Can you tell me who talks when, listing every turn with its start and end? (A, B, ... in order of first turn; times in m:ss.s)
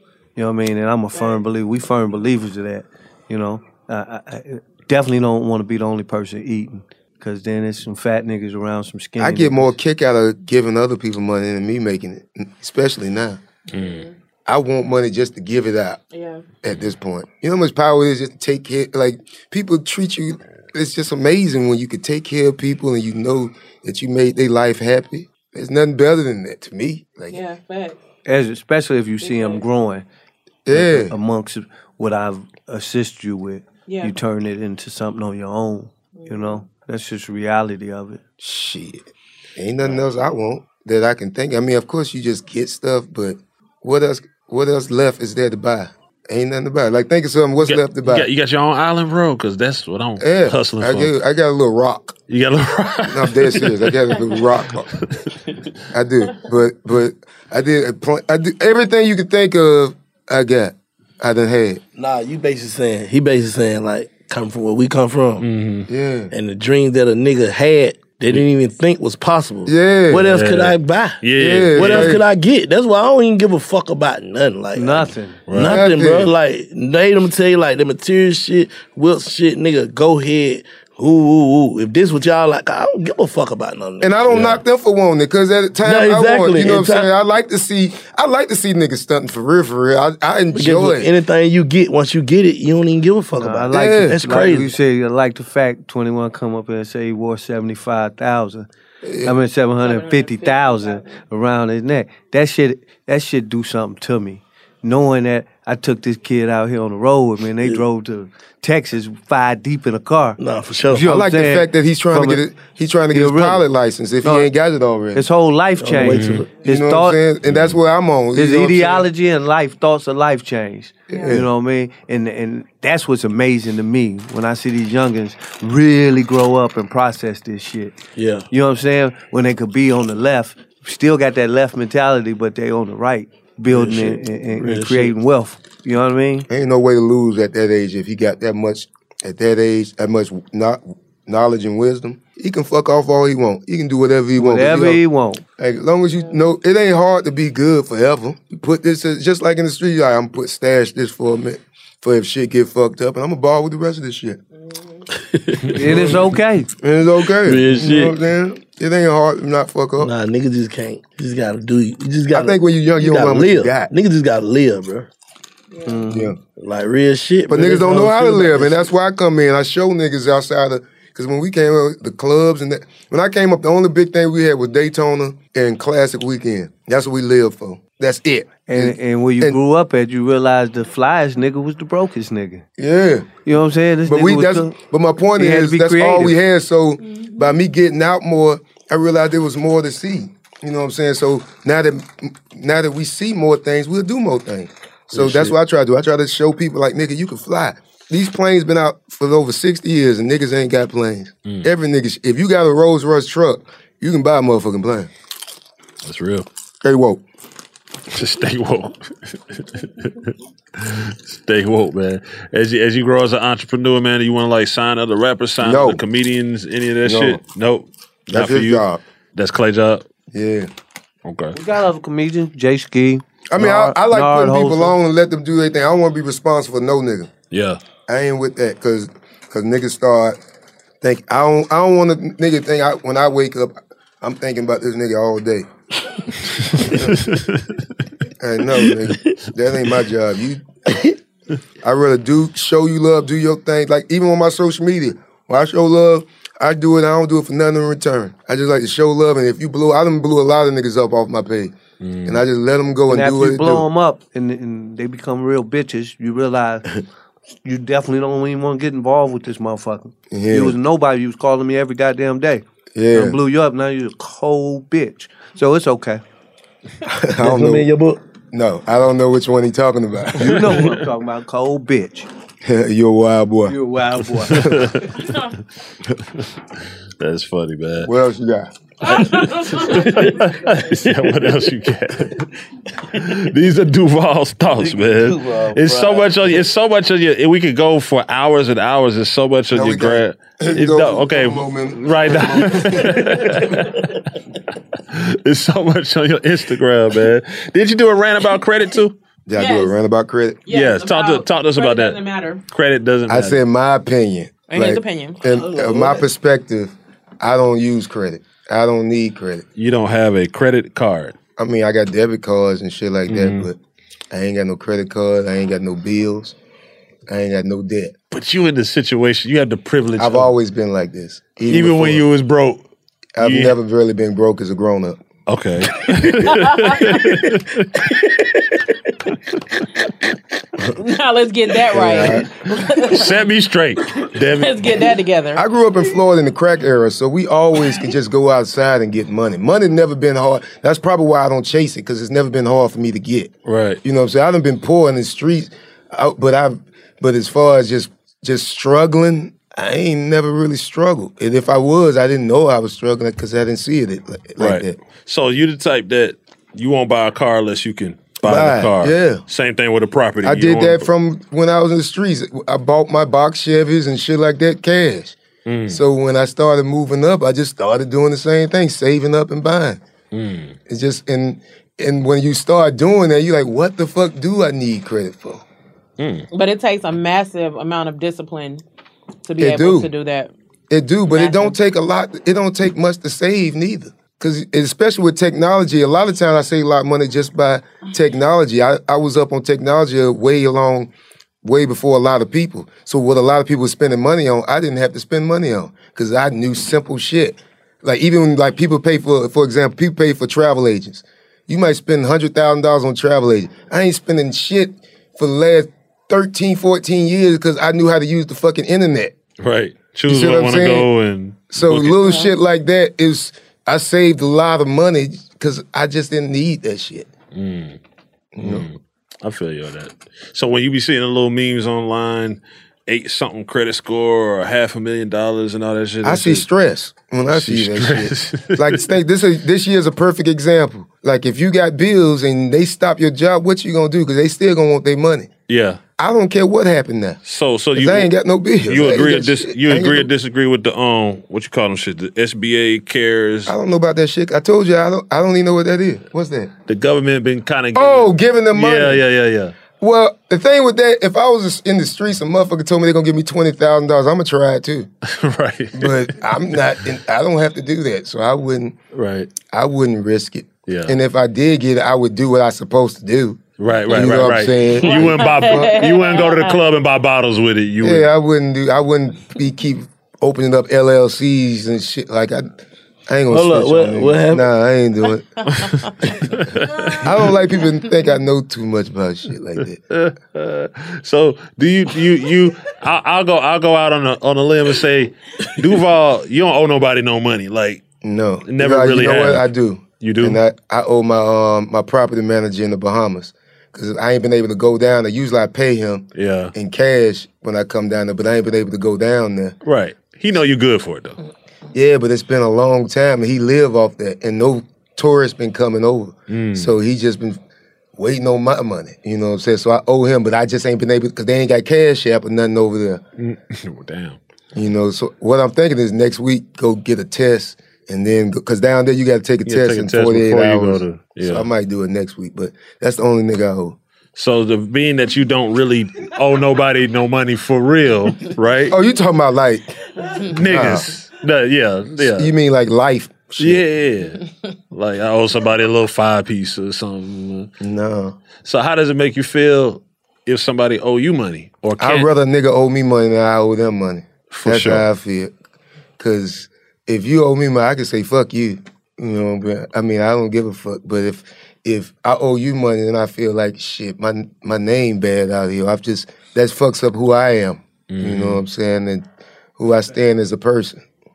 0:00.4-0:09.7 A
0:01.1-0:01.4 B
0:09.2-0:13.4 C
0:13.7-0:14.1 B
0:13.7-0:14.1 D
0:14.4-0:16.0 C
0:16.1-0:16.4 B
0:16.6-0:27.4 C
0:27.3-0:28.0 B
0:28.2-0:30.0 A
0:29.2-0:29.6 B
0:30.7-0:31.1 C
0:30.7-0:38.2 A
0:33.9-0:34.1 B
0:36.1-0:36.6 B
0:38.4-0:48.3 C
0:47.6-0:51.1 D
0:50.2-0:52.1 C
0:52.3-0:54.4 D
0:53.1-0:54.9 C
0:55.9-1:01.8 C
1:02.0-1:05.4 E
1:05.4-1:05.9 D
1:05.9-1:06.3 C
1:06.3-1:24.6 E
1:09.6-1:10.3 C
1:10.3-1:12.2 D
1:11.4-1:12.2 C
1:14.7-1:15.4 A
1:15.5-1:15.8 D
1:15.6-1:16.3 C
1:24.0-1:31.1 C
1:25.8-1:27.1 E
1:30.5-1:34.7 E
1:33.4-1:38.7 A
1:33.7-1:34.2 C
1:39.0-1:39.4 C
1:39.2-1:50.4 A
1:39.8-1:41.2 B
1:50.4-1:51.1 E
1:50.9-1:52.4 A
1:50.9-1:55.3 C
1:53.1-1:53.6 A
1:54.2-1:54.5 A
1:55.1-1:57.2 A
1:55.8-1:56.6 E
1:56.0-1:56.4 D
1:56.6-1:59.1 C
1:57.5-1:57.7 D
1:58.3-2:07.9 A
2:01.1-2:01.4 C
2:08.2-2:08.5 E
2:08.5-2:16.5 A
2:13.7-2:15.2 E
2:16.5-2:25.0 C
2:24.3-2:25.4 A
2:25.6-2:34.4 C
2:34.5-2:35.0 B
2:35.2-2:36.3 E
2:35.7-2:36.7 A
2:35.9-2:36.2 C
2:36.8-2:40.1 C
2:37.4-2:38.2 E
2:40.0-2:45.1 E
2:42.3-2:43.9 C
2:45.7-2:46.0 B
2:45.8-2:46.2 A
2:45.9-2:48.9 E
2:46.1-2:46.4 C
2:47.5-2:59.6 C
2:58.6-3:02.6 A
3:02.8-3:03.4 C
3:03.4-3:04.8 A
3:04.0-3:25.1 C
3:05.3-3:06.4 A
3:07.0-3:07.5 B
3:15.1-3:15.5 E
3:26.0-3:26.5 D
3:26.8-3:27.2 C
3:28.1-3:38.8 D
3:35.6-3:36.0 C
3:37.0-3:37.4 C
3:38.3-3:39.0 C
3:39.3-3:40.0 D
3:40.3-3:40.7 C
3:41.2-3:41.6 D
3:41.5-3:45.0 A
3:43.5-3:47.3 C
3:47.5-3:47.8 D
3:48.1-3:50.4 C
3:51.0-3:55.7 C
3:56.7-3:57.3 C
3:57.0-3:57.8 D
3:58.4-4:00.6 C
4:01.8-4:11.7 C
4:12.0-4:12.4 D
4:12.2-4:13.8 C
4:13.1-4:16.8 A
4:17.6-4:26.2 A
4:20.3-4:20.8 C
4:22.9-4:23.4 C
4:27.1-4:27.9 C
4:27.4-4:28.2 E
4:28.5-4:30.7 C
4:30.4-4:32.3 A
4:30.4-4:30.9 D
4:32.6-4:33.8 C
4:33.7-4:34.8 A
4:34.5-4:35.4 D
4:37.2-4:38.1 D
4:38.0-4:38.7 C
4:39.0-4:42.5 D
4:39.1-4:40.0 B
4:43.1-4:54.2 D
4:44.8-4:46.7 E
4:49.7-4:53.8 C
4:55.1-4:59.1 D
4:59.5-5:00.6 C
4:59.6-5:00.0 B
5:00.6-5:02.6 B
5:00.7-5:03.6 D
5:03.3-5:09.6 C
5:04.7-5:05.4 B
5:05.4-5:06.3 E
5:09.8-5:11.3 D
5:11.6-5:13.8 C
5:13.3-5:13.7 D
5:14.3-5:16.6 C
5:17.3-5:18.1 C
5:18.3-5:20.5 D
5:20.2-5:22.2 C
5:21.6-5:22.8 D
5:23.4-5:25.2 C
5:23.4-5:23.8 D
5:25.5-5:28.2 D
5:26.5-5:27.2 B
5:30.9-5:33.3 B
5:31.9-5:32.4 C
5:33.0-5:35.0 D
5:34.6-5:35.6 B
5:35.5-5:43.5 C
5:43.6-5:44.0 D
5:44.0-5:55.0 C
5:54.6-6:01.1 D
5:58.4-5:59.4 C
6:00.4-6:10.0 C
6:05.6-6:06.0 D
6:10.3-6:10.8 D
6:10.9-6:15.6 C
6:16.2-6:16.5 D
6:16.5-6:18.8 B
6:19.4-6:20.5 B
6:19.6-6:20.1 C
6:20.9-6:31.1 C
6:21.3-6:21.8 B
6:31.6-6:49.3 C
6:49.6-6:52.2 D
6:50.3-6:51.1 C
6:51.7-6:57.3 C
6:57.5-6:58.0 D
6:58.5-6:58.9 C
6:58.6-7:06.6 D
7:06.2-7:15.5 C
7:07.5-7:09.1 D
7:15.7-7:16.0 D
7:16.2-7:17.4 C
7:17.4-7:18.3 D
7:17.9-7:20.3 C
7:18.9-7:23.7 D
7:23.6-7:26.7 C
7:26.9-7:29.7 D
7:27.9-7:29.2 C
7:30.0-7:35.1 C
7:35.3-7:36.4 D
7:35.9-7:39.0 C
7:39.1-7:39.5 D
7:39.7-7:46.0 C
7:40.9-7:41.2 D
7:43.8-7:48.3 D
7:45.0-7:46.8 B
7:48.0-7:55.5 C
7:53.5-7:54.7 E
7:55.8-7:57.4 D
7:57.2-8:00.0 C
8:00.1-8:08.0 D
8:08.2-8:19.8 C
8:08.6-8:09.7 D
8:10.2-8:10.6 D
8:16.3-8:16.7 D
8:19.8-8:21.4 D
8:21.9-8:27.6 C
8:26.5-8:26.9 D
8:28.2-8:33.2 C
8:33.4-8:34.4 D
8:34.7-8:44.0 C
8:39.6-8:41.7 D
8:44.4-8:49.0 D
8:48.9-8:49.9 C
8:50.5-8:52.5 D
8:50.5-8:51.1 C
8:52.2-8:53.8 C
8:53.6-8:57.7 D
8:57.8-8:58.4 C
8:58.6-9:02.3 D
9:02.0-9:05.5 C
9:04.5-9:05.0 D
9:06.2-9:21.0 C
9:18.1-9:18.6 D